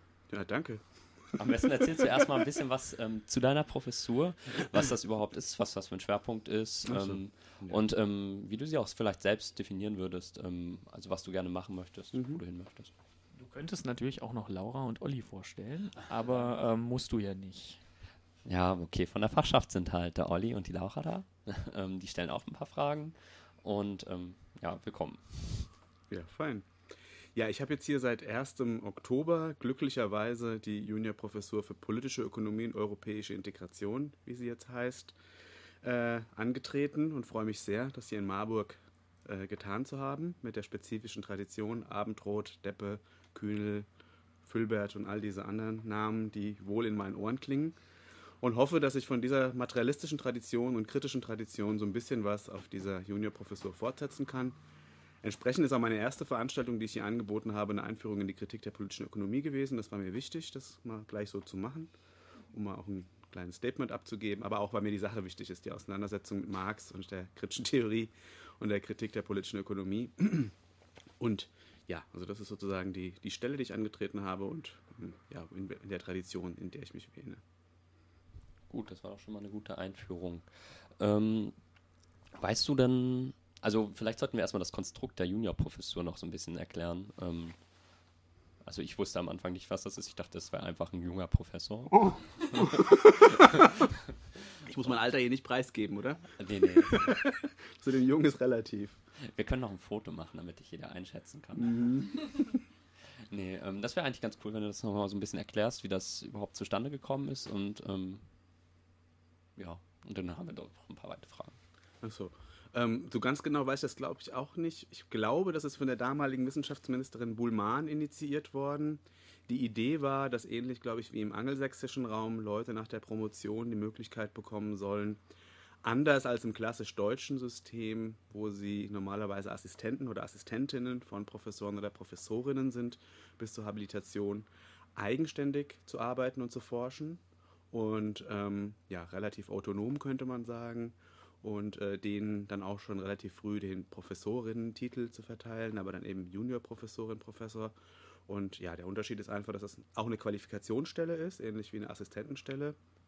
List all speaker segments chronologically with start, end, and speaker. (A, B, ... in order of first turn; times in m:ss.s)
0:00.3-0:01.4 A
0:01.4-0:12.9 B
0:06.8-0:07.8 A
0:12.1-0:12.4 A
0:13.3-0:17.8 C
0:18.4-0:25.7 B
0:26.1-0:26.7 A
0:27.3-0:35.2 A
0:35.8-0:43.9 A
0:44.4-0:47.8 A
0:48.4-0:54.6 A
0:55.2-1:01.9 A
1:02.5-1:10.5 A
1:11.2-1:17.4 A
1:18.7-1:21.6 B
1:22.3-1:27.6 B
1:28.6-1:33.9 B
1:32.6-1:33.7 A
1:34.6-1:39.0 A
1:36.4-1:37.2 B
1:39.2-1:42.3 B
1:41.6-1:42.6 A
1:43.2-1:48.2 B
1:49.6-1:51.6 B
1:52.0-2:05.2 A
2:05.8-2:27.7 A
2:28.3-2:32.8 A